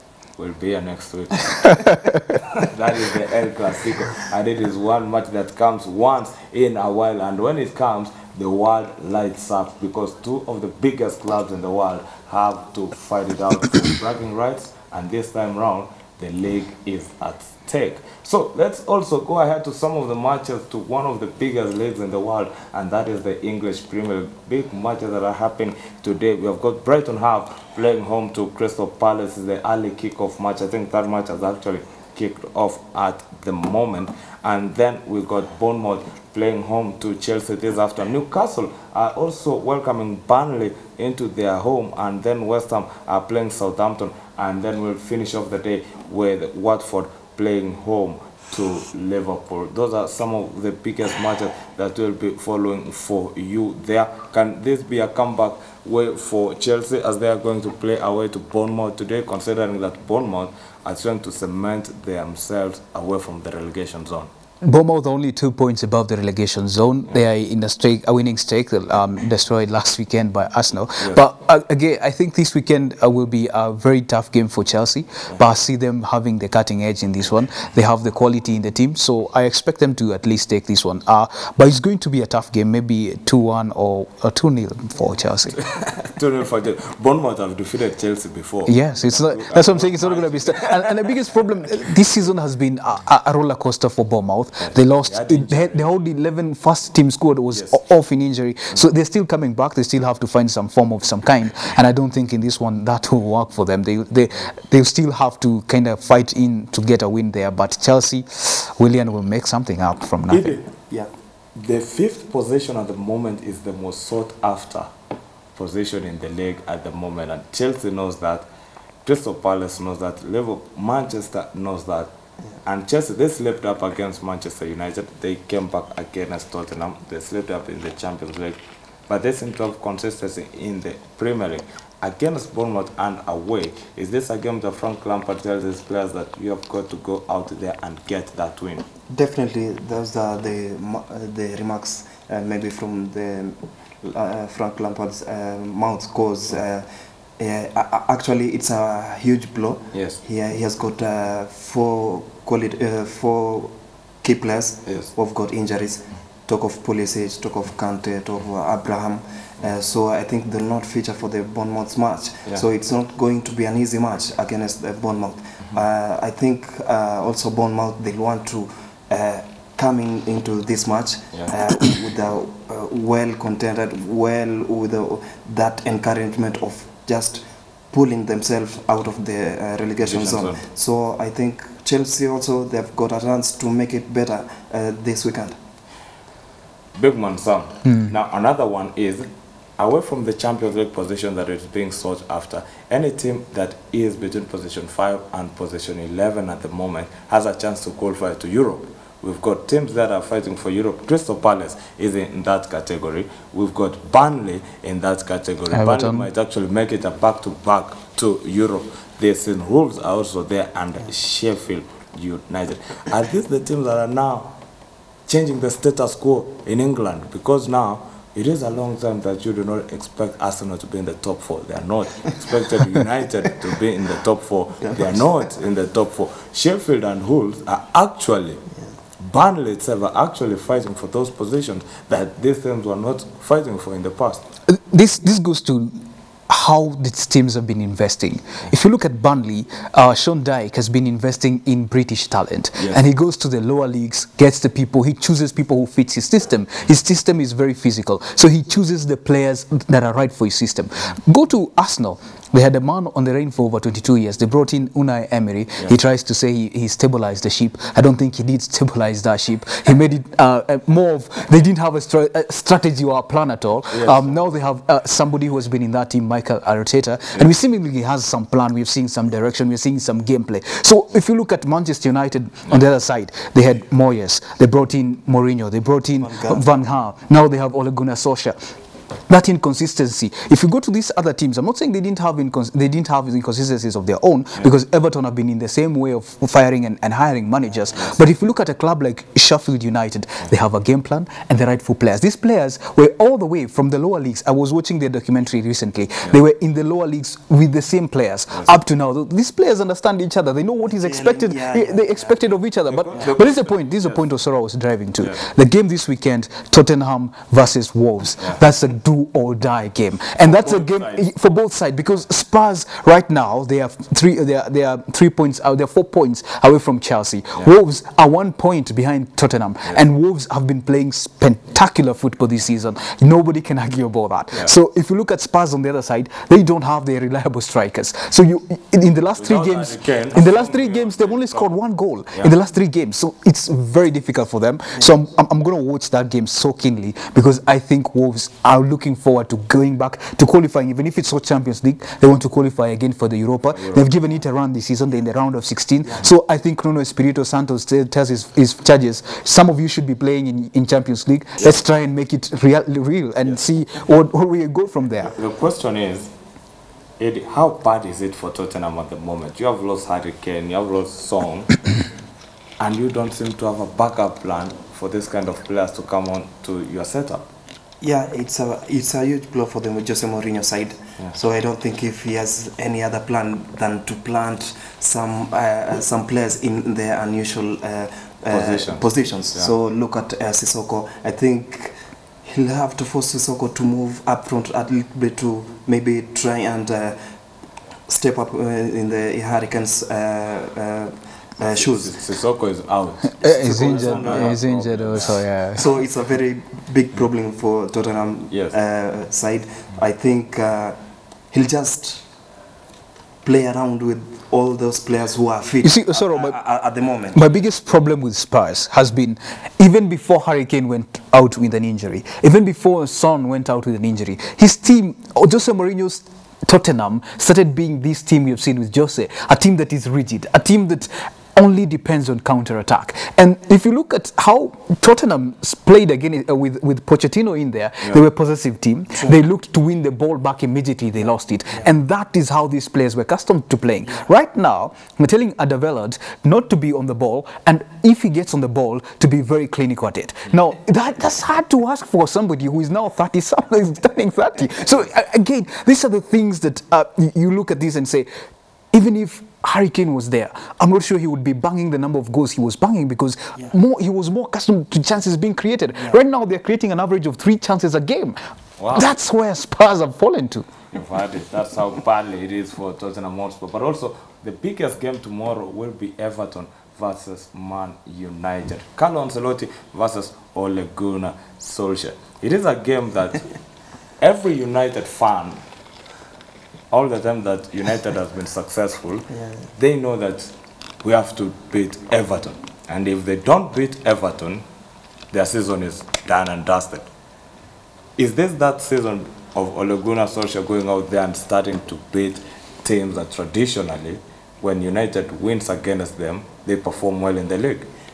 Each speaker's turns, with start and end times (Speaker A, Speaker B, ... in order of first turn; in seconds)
Speaker A: 0.4-1.9, 2.5-64.3, 85.6-91.1, 94.6-95.8, 97.5-97.8, 110.3-110.6, 111.5-114.9, 115.5-118.4, 119.0-122.1, 122.6-138.8, 149.9-150.2, 180.0-180.6, 186.9-189.3, 189.8-214.5, 215.3-228.6, 229.2-234.4, 242.8-243.0, 263.9-264.4, 302.9-303.7, 310.4-311.2, 329.4-331.7, 343.8-344.1, 355.2-356.3, 357.2-361.9, 362.8-367.5, 378.5-379.7, 391.7-395.4, 458.8-459.1, 460.9-473.5, 474.2-475.6, 476.9-484.6, 485.3-487.1, 488.2-497.9
Speaker B: 1.6-2.2, 64.6-85.6, 88.7-110.6, 205.7-206.3, 234.7-278.6, 279.3-355.3, 393.2-395.9, 405.8-406.6, 407.3-448.3, 448.9-458.4, 458.9-460.7
Speaker C: 139.1-146.9, 147.4-185.6, 224.8-225.2, 276.2-276.6, 301.0-302.4, 368.0-381.9, 382.4-387.2, 388.1-392.1, 394.2-394.5, 395.7-400.9, 401.5-402.2, 403.4-407.4